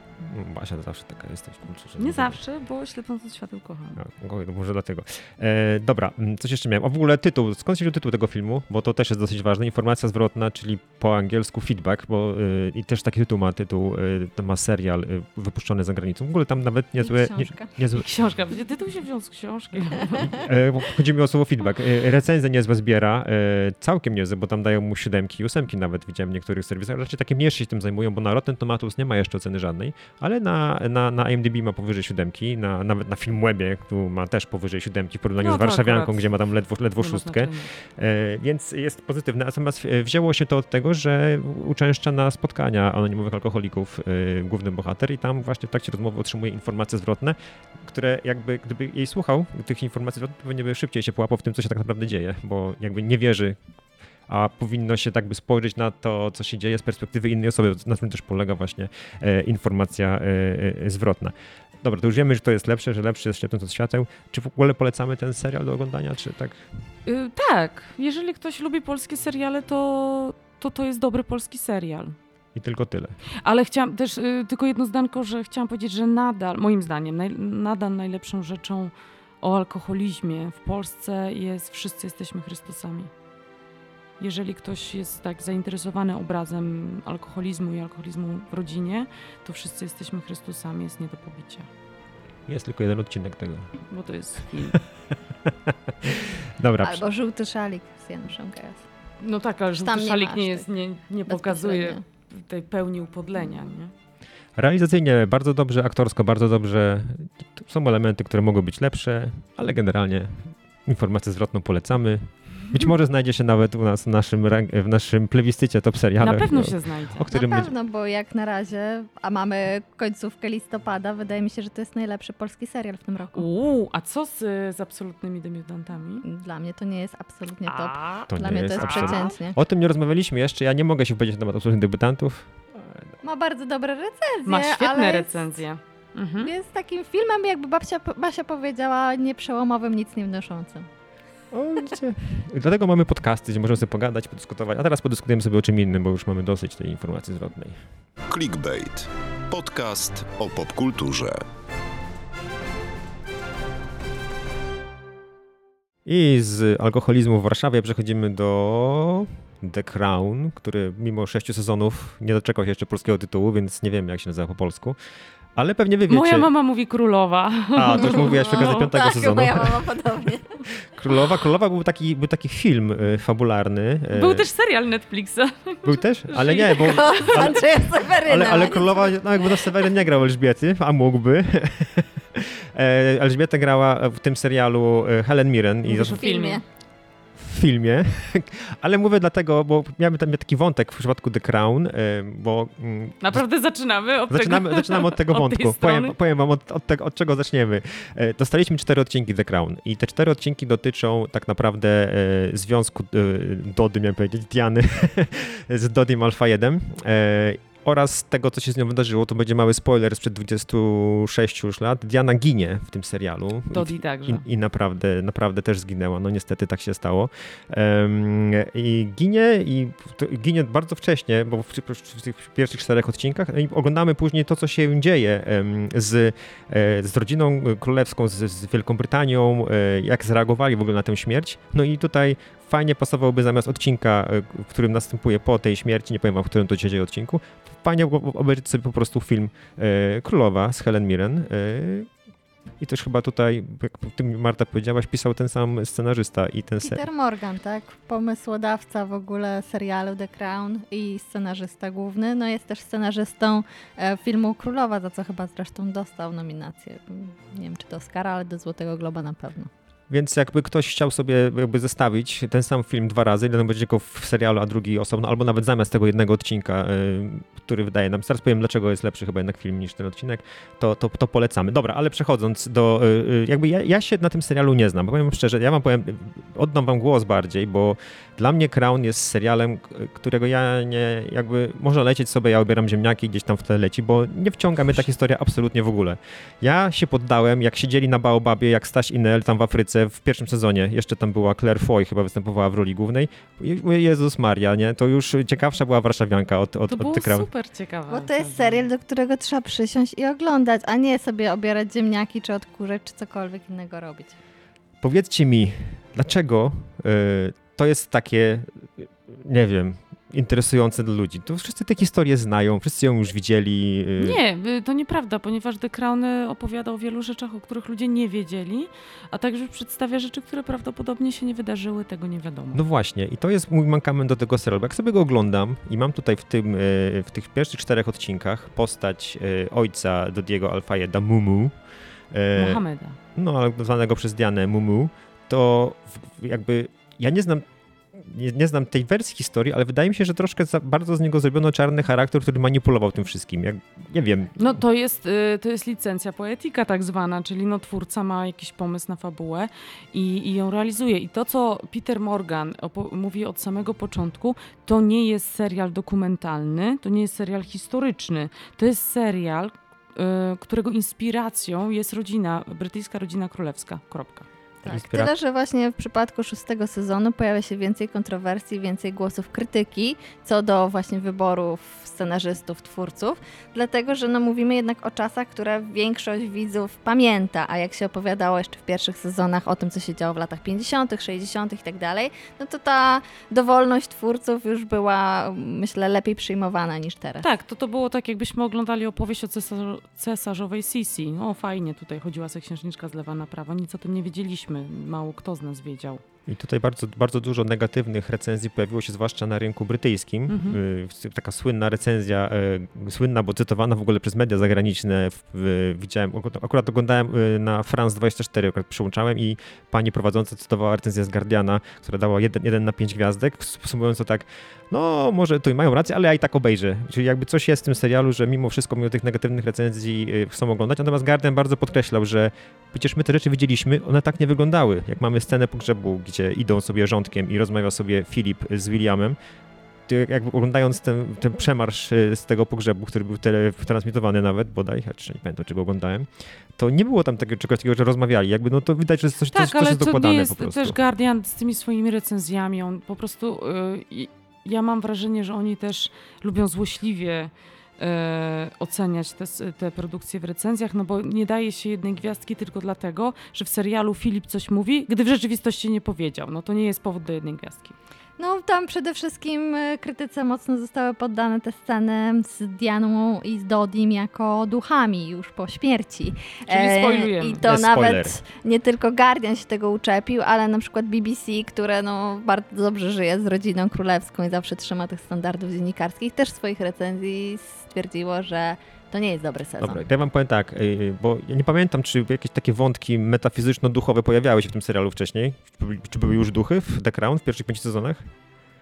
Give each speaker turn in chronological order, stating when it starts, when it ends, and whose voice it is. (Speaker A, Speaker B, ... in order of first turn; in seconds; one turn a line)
Speaker A: 0.2-2.4
Speaker B: 2.0-4.0
Speaker A: 4.0-18.1
Speaker C: 17.0-17.7
Speaker B: 17.9-20.4
Speaker A: 20.2-53.6
Speaker B: 35.4-36.3
Speaker B: 37.0-37.7
Speaker A: 54.3-66.6
Speaker B: 67.1-72.2
Speaker A: 72.5-73.2
Speaker B: 73.4-83.1
Speaker B: 84.2-91.7
Speaker A: 92.5-93.8
Speaker B: 93.9-94.8
Speaker A: 95.5-97.0
Speaker C: 96.8-98.8
Speaker B: 99.2-103.9
Speaker C: 99.8-100.7
Speaker C: 101.3-102.0
Speaker A: 104.6-117.7
Speaker B: 116.2-117.2
Speaker C: 117.3-123.5
Speaker B: 123.3-126.2
Speaker C: 126.2-129.6
Speaker B: 127.7-129.3
Speaker A: 128.3-133.1
Speaker C: 133.2-135.6
Speaker B: 134.5-136.5
Speaker C: 136.4-140.9
Speaker A: 141.5-147.8
Speaker D: 148.3-151.4
Speaker A: 156.1-165.0
Speaker A: 165.6-166.5
Speaker B: 166.1-168.8
Speaker A: 167.8-169.9
Speaker C: 168.1-170.6
Speaker A: 170.8-174.5
Speaker B: 174.1-177.5
Speaker A: 175.8-186.2
Speaker C: 176.8-179.1
Speaker B: 185.9-186.6
Speaker C: 186.0-186.6
Speaker A: 187.4-193.4
Speaker B: 193.2-196.2
Speaker A: 194.3-242.1
Speaker B: 213.7-214.4
Speaker A: 242.8-247.0
Speaker C: 246.8-259.7
Speaker A: 260.1-297.5
Speaker B: 296.9-298.8
Speaker C: 298.1-304.4
Speaker A: 305.0-314.4
Speaker B: 314.2-322.8
Speaker A: 322.7-331.8
Speaker A: 332.3-332.8
Speaker B: 332.6-333.2
Speaker A: 333.4-344.8
Speaker B: 344.6-364.5
Speaker C: 364.8-387.5
Speaker A: 364.9-365.3
Speaker B: 387.4-396.2
Speaker A: 396.5-429.4
Speaker B: 400.5-400.8
Speaker A: 430.1-441.0
Speaker B: 439.5-458.0
Speaker C: 458.4-480.0
Speaker B: 466.7-467.6
Speaker A: 467.6-468.4
Speaker A: 479.8-488.3